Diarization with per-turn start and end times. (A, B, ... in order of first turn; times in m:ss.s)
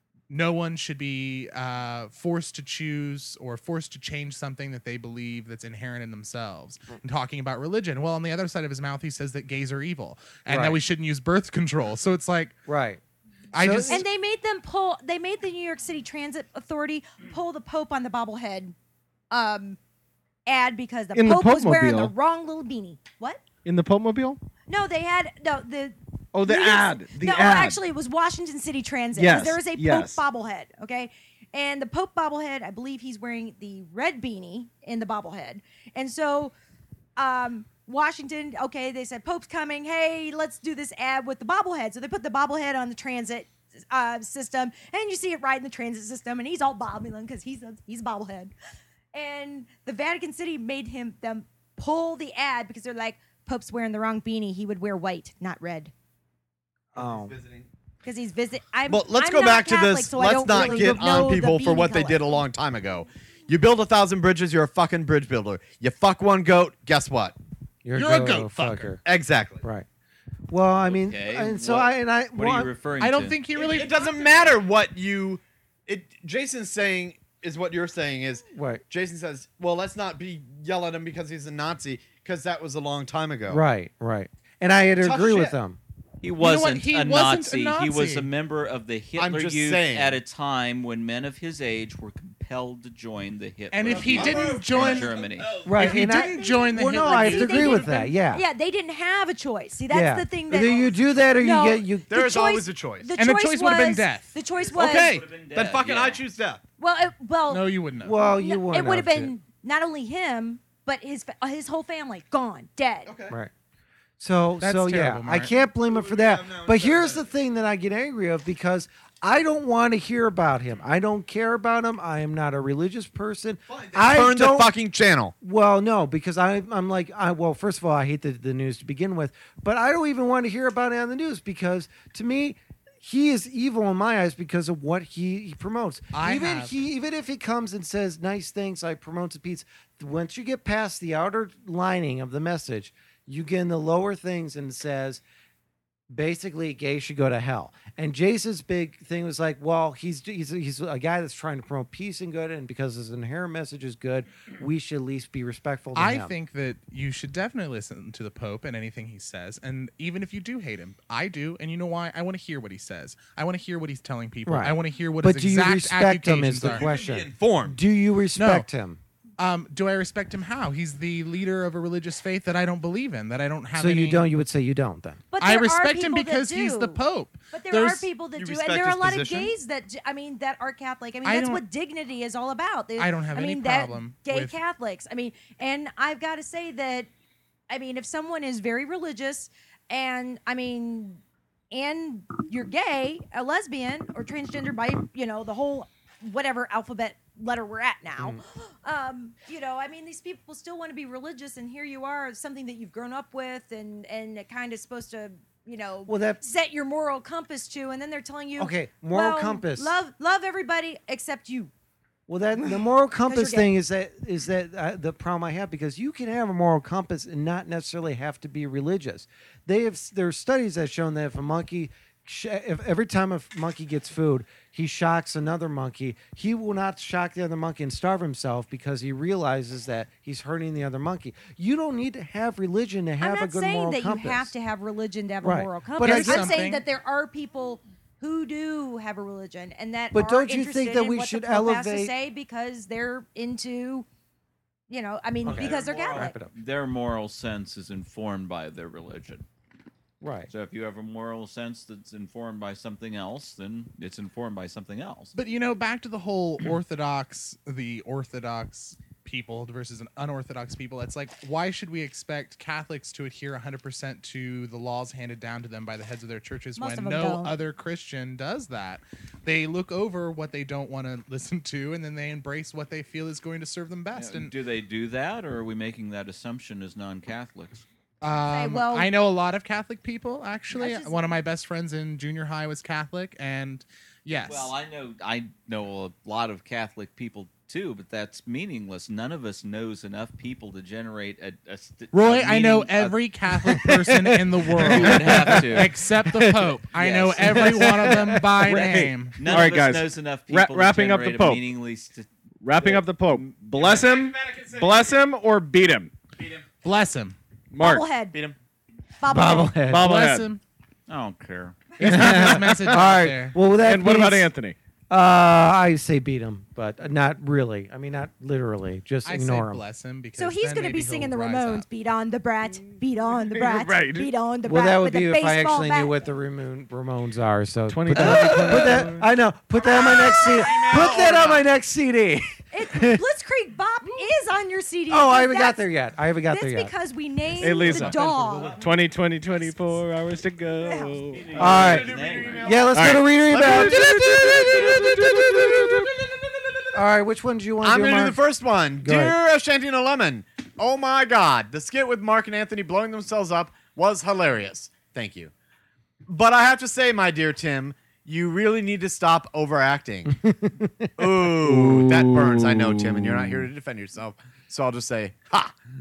0:00.3-0:12.6 A
0:10.5-0:10.8 B
0:12.7-0:13.0 B
0:13.5-0:14.0 A
0:13.6-0:14.0 B
0:13.9-0:18.7 C
0:19.3-0:19.8 C
0:20.4-0:23.4 C
0:21.1-0:22.1 D
0:23.6-0:24.4 D
0:24.7-0:36.5 C
0:26.3-0:27.8 D
0:29.1-0:30.2 D
0:37.2-0:48.5 C
0:49.1-0:55.9 C
0:56.9-0:57.3 B
0:56.9-0:57.7 E
0:58.0-1:02.3 C
0:58.9-1:07.4 E
1:00.4-1:01.2 B
1:07.8-1:09.0 B
1:07.9-1:09.0 A
1:09.0-1:09.6 E
1:10.5-1:12.7 B
1:10.9-1:13.4 F
1:13.0-1:14.1 A
1:13.5-1:23.6 E
1:18.5-1:18.8 B
1:23.5-1:25.8 B
1:25.0-1:25.5 E
1:26.2-1:35.5 F
1:26.4-1:28.3 A
1:29.2-1:30.2 E
1:33.7-1:37.8 A
1:33.8-1:35.9 E
1:35.6-1:38.4 B
1:35.9-1:45.1 C
1:39.9-1:42.1 B
1:40.6-1:40.9 E
1:42.1-1:43.1 E
1:43.2-1:44.3 A
1:44.6-1:46.2 F
1:44.7-1:46.6 E
1:46.8-1:47.6 C
1:47.5-1:48.2 A
1:48.0-1:49.3 B
1:48.2-1:53.1 C
1:53.0-1:53.4 E
1:54.2-2:04.7 B
1:54.6-1:55.5 A
1:55.8-1:57.3 E
2:03.7-2:05.3 E
2:05.4-2:25.2 B
2:16.1-2:16.7 A
2:26.1-2:36.3 B
2:35.9-2:46.9 A
2:44.4-2:49.0 B
2:46.6-2:47.8 E
2:48.3-2:48.7 A
2:49.4-2:54.2 A
2:53.8-2:55.2 B
2:55.3-3:07.1 C
2:55.4-2:58.1 A
2:58.3-2:59.5 E
3:01.2-3:01.6 A
3:03.0-3:04.6 A
3:07.7-3:11.2 C
3:11.7-3:31.7 C
3:26.1-3:26.4 B
3:28.6-3:29.9 B
3:32.3-3:54.5 B
3:32.6-3:33.7 C
3:53.2-4:04.1 C
3:55.4-3:56.5 B
3:56.0-3:56.8 A
4:00.1-4:02.1 B
4:04.9-4:06.3 C
4:05.4-4:06.5 B
4:05.5-4:06.2 E
4:05.5-4:09.4 F
4:10.2-4:10.5 B
4:10.5-4:15.3 F
4:15.3-4:34.5 A
4:26.8-4:27.6 C
4:34.1-4:37.8 F
4:38.2-4:44.7 A
4:38.5-4:39.1 C
4:40.7-4:41.4 C
4:44.4-4:53.2 F
4:52.1-4:59.5 A
4:53.5-4:56.8 B
4:54.8-4:56.0 F
4:56.9-4:58.2 F
4:57.4-4:58.5 B
4:58.5-5:01.6 D
4:58.8-5:03.5 F
5:02.6-5:06.1 D
5:03.7-5:05.2 E
5:06.4-5:06.7 E
5:06.8-5:07.4 A
5:07.7-5:08.0 D
5:07.8-5:08.4 C
5:08.3-5:08.6 E
5:09.2-5:09.8 C
5:09.3-5:10.1 B
5:09.8-5:10.5 D
5:10.0-5:10.6 A
5:11.1-5:11.9 F
5:12.0-5:13.2 D
5:12.0-5:13.6 A
5:12.0-5:14.5 B
5:13.8-5:14.8 D
5:15.1-5:19.8 B
5:19.2-5:21.8 A
5:20.3-5:26.2 C
5:23.3-5:24.3 D
5:24.6-5:33.2 B
5:27.9-5:29.3 D
5:29.8-5:31.7 E
5:29.8-5:31.2 C
5:32.7-5:35.8 C
5:35.1-5:36.9 B
5:36.5-5:38.8 C
5:37.6-5:42.0 D
5:37.9-5:38.2 B
5:40.8-5:41.2 C
5:41.3-5:42.8 F
5:41.3-5:46.1 E
5:41.6-5:45.8 B
5:42.9-5:46.1 D
5:46.9-5:48.4 B
5:47.8-5:55.5 E
5:49.0-5:49.4 B
5:56.2-6:00.4 E
6:00.3-6:01.1 B
6:01.2-6:05.7 E
6:01.6-6:03.7 D